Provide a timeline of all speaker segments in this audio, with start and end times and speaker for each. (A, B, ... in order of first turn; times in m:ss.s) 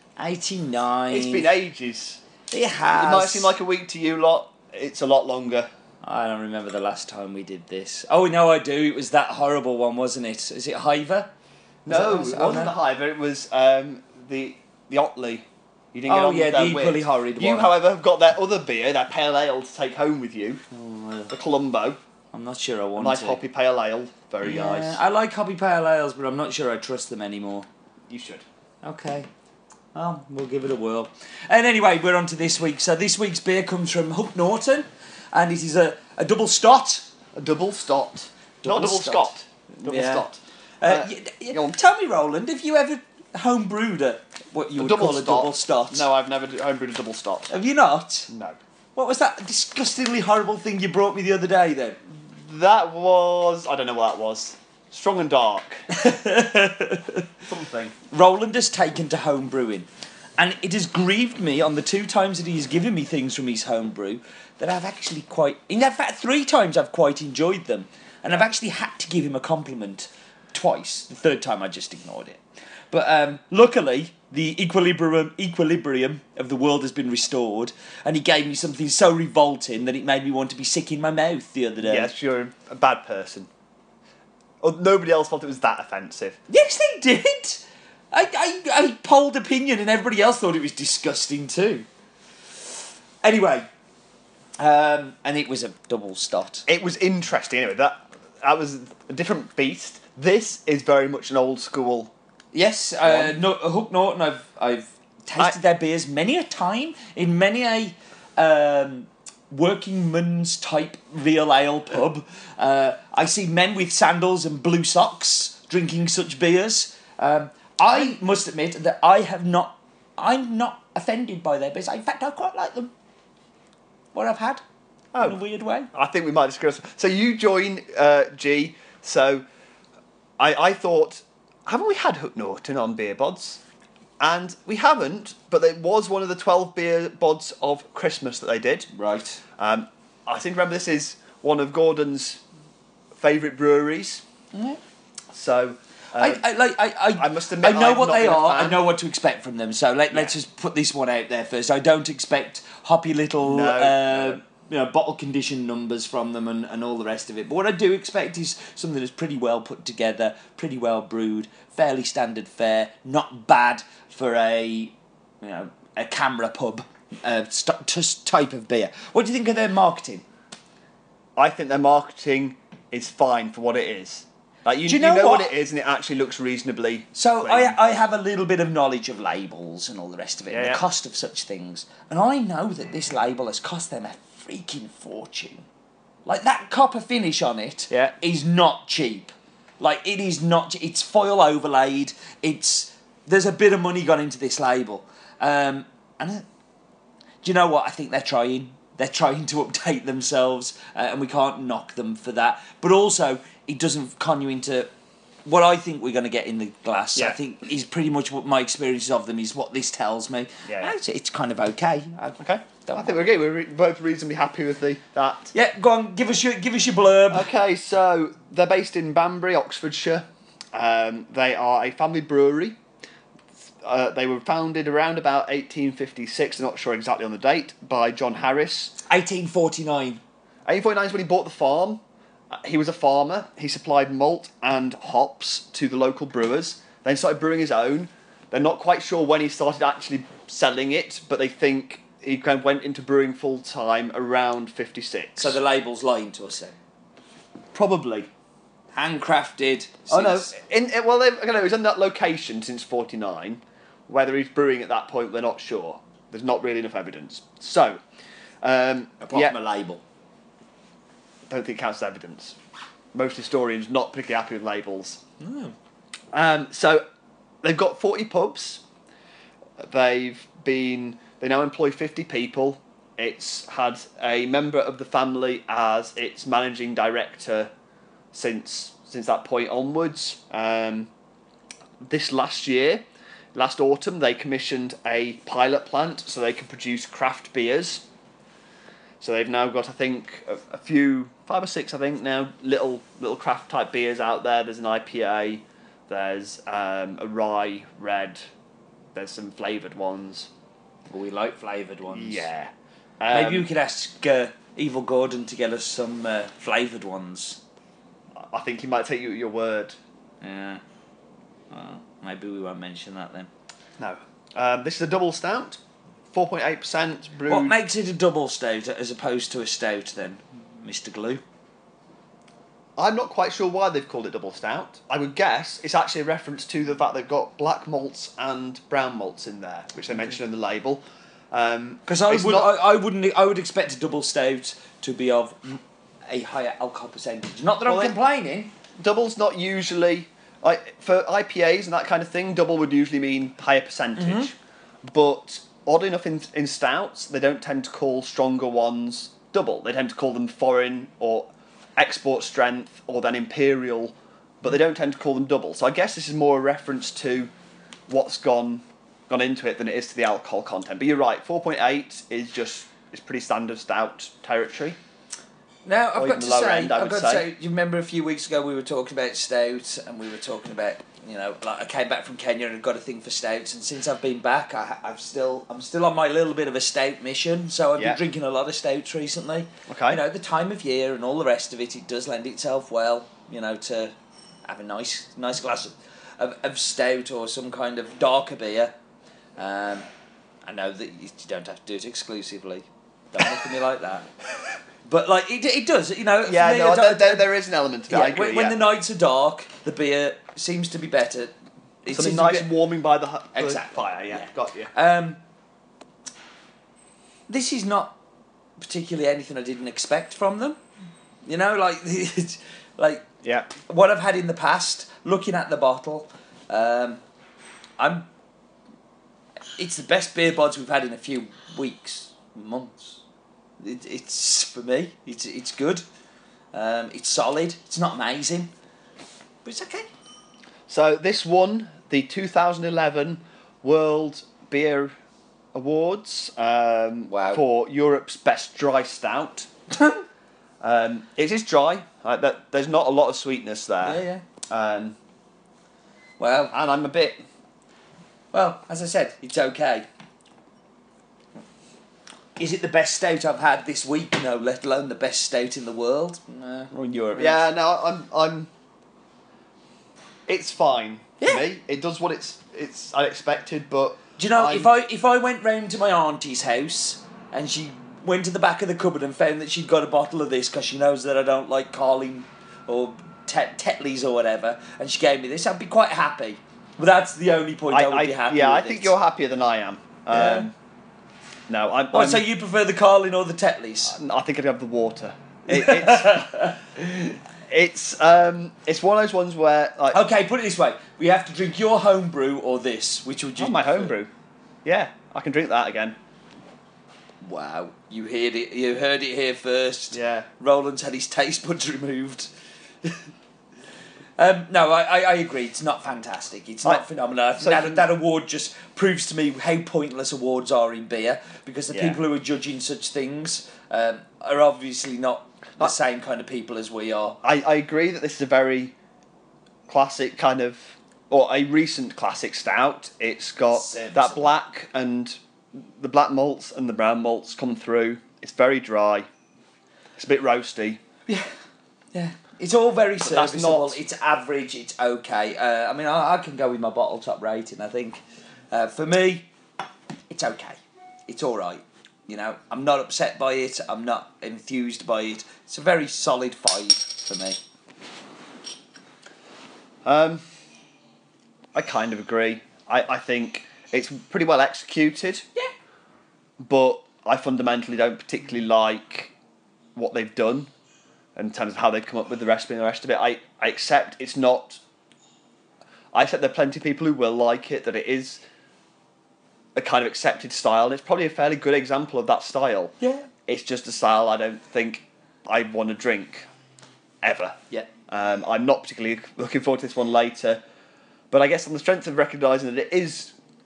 0:00.2-0:01.5 A
0:01.1-0:02.2 B
0:02.5-0:03.5 A
0:02.9-0:05.7 B
0:06.0-0:11.3 A
0:11.8-0:20.6 B
0:11.9-0:12.7 A
0:16.1-0:17.7 A
0:20.7-0:21.3 A
0:21.3-0:22.0 B
0:22.3-0:23.4 A
0:23.0-0:25.0 B
0:24.4-0:27.7 A
0:28.1-0:28.4 B
0:28.8-0:29.3 A
0:29.9-0:37.1 A
0:37.4-0:41.8 B
0:38.6-0:40.3 A
0:40.8-0:46.1 A
0:44.8-0:47.5 B
0:47.5-0:48.3 A
0:48.3-0:48.6 B
0:49.0-0:52.0 A
0:52.2-0:55.8 B
0:55.9-0:57.3 A
0:57.5-0:57.9 B
0:58.1-0:59.9 A
1:00.4-1:12.4 A
1:12.9-1:22.1 A
1:21.8-1:23.5 B
1:24.6-1:26.4 B
1:26.5-1:31.9 A
1:33.2-1:33.7 A
1:34.6-1:36.6 A
1:36.7-1:42.1 B
1:42.5-2:02.9 A
1:43.0-1:43.4 B
2:04.1-2:04.6 A
2:05.1-2:05.4 B
2:05.2-2:05.9 A
2:05.9-2:09.4 B
2:10.4-2:13.6 B
2:14.2-2:18.9 B
2:18.9-2:19.4 A
2:19.6-2:22.4 B
2:23.2-2:24.2 B
2:24.5-2:24.8 A
2:25.3-2:26.4 B
2:26.2-2:50.2 A
2:27.2-2:28.8 B
2:30.1-2:30.4 B
2:33.4-2:34.4 B
2:51.4-2:57.8 B
2:54.8-2:55.5 A
2:57.2-3:05.7 A
3:00.5-3:00.8 B
3:06.2-3:16.4 A
3:07.9-3:08.2 B
3:17.4-3:24.9 A
3:25.4-3:33.3 A
3:30.7-3:31.0 B
3:32.4-3:35.5 B
3:35.5-3:37.5 A
3:37.3-3:42.8 B
3:43.8-3:49.0 B
3:49.1-3:50.2 A
3:50.7-4:05.6 B
4:05.4-4:06.7 A
4:07.7-4:08.3 B
4:08.9-4:10.5 A
4:10.1-4:18.0 B
4:18.6-4:19.6 B
4:19.2-4:20.0 A
4:21.5-4:22.6 B
4:23.1-4:25.2 B
4:25.4-4:25.8 A
4:26.3-4:27.0 B
4:27.6-4:28.8 B
4:29.8-4:37.7 B
4:38.3-4:41.1 B
4:42.0-4:43.0 B
4:43.6-4:48.0 B
4:49.2-4:58.4 B
4:59.2-5:00.5 B
5:01.1-5:02.5 A
5:02.1-5:03.7 B
5:03.3-5:07.6 A
5:08.4-5:10.0 B
5:10.4-5:10.8 A
5:11.7-5:13.5 A
5:14.0-5:15.8 B
5:16.3-5:17.8 B
5:17.5-5:21.4 A
5:23.0-5:32.8 B
5:32.1-5:38.7 A
5:37.9-5:38.2 B
5:39.0-5:44.6 B
5:44.2-5:44.5 A
5:45.1-5:57.5 B
5:58.1-6:05.0 B
6:05.8-6:24.1 A
6:06.2-6:07.5 B
6:19.9-6:20.2 B
6:24.7-6:28.9 A
6:29.6-6:30.1 A
6:30.6-6:34.3 A
6:35.0-6:37.5 A
6:36.4-6:38.8 B
6:38.1-6:42.7 A
6:42.1-6:44.9 B
6:43.5-6:45.4 A
6:47.5-6:48.2 A
6:48.8-6:50.8 A
6:51.4-6:57.2 A
6:53.4-6:53.7 B
6:58.0-6:58.3 A
6:59.8-7:03.2 A
7:03.8-7:06.0 A
7:06.7-7:08.7 A
7:09.6-7:10.1 A
7:10.9-7:15.1 B
7:15.7-7:19.7 B
7:17.3-7:17.6 A
7:20.0-7:20.2 A
7:20.8-7:25.2 B
7:24.0-7:24.4 A
7:26.4-7:26.7 A
7:26.7-7:27.4 B
7:28.5-7:30.1 A
7:32.6-7:37.6 A
7:36.9-7:38.7 B
7:40.5-7:44.9 B
7:41.4-7:41.7 A
7:44.4-7:59.1 A
7:57.9-8:00.7 B
8:00.3-8:00.7 A
8:01.7-8:02.4 B
8:02.1-8:04.2 A
8:04.1-8:06.5 B
8:05.7-8:06.9 A
8:07.7-8:10.2 B
8:10.1-8:14.2 A
8:13.6-8:14.3 B
8:14.8-8:16.2 B
8:17.4-8:22.5 A
8:20.1-8:20.5 B
8:24.4-8:37.4 A
8:27.6-8:28.1 B
8:31.9-8:32.2 B
8:37.4-8:39.0 B
8:39.9-8:49.3 B
8:43.7-8:44.6 A
8:50.2-8:51.0 B
8:52.1-8:58.2 A
8:53.2-8:54.0 B
8:58.7-8:59.5 A
9:00.3-9:07.6 A
9:10.0-9:10.4 B
9:11.7-9:15.4 B
9:16.6-9:19.3 B
9:20.0-9:20.7 B
9:21.4-9:24.8 B
9:26.1-9:28.4 B
9:29.8-9:32.9 B
9:33.0-9:33.3 A
9:33.5-9:36.5 B
9:37.2-9:37.6 B
9:38.1-9:40.6 B
9:41.3-9:43.4 B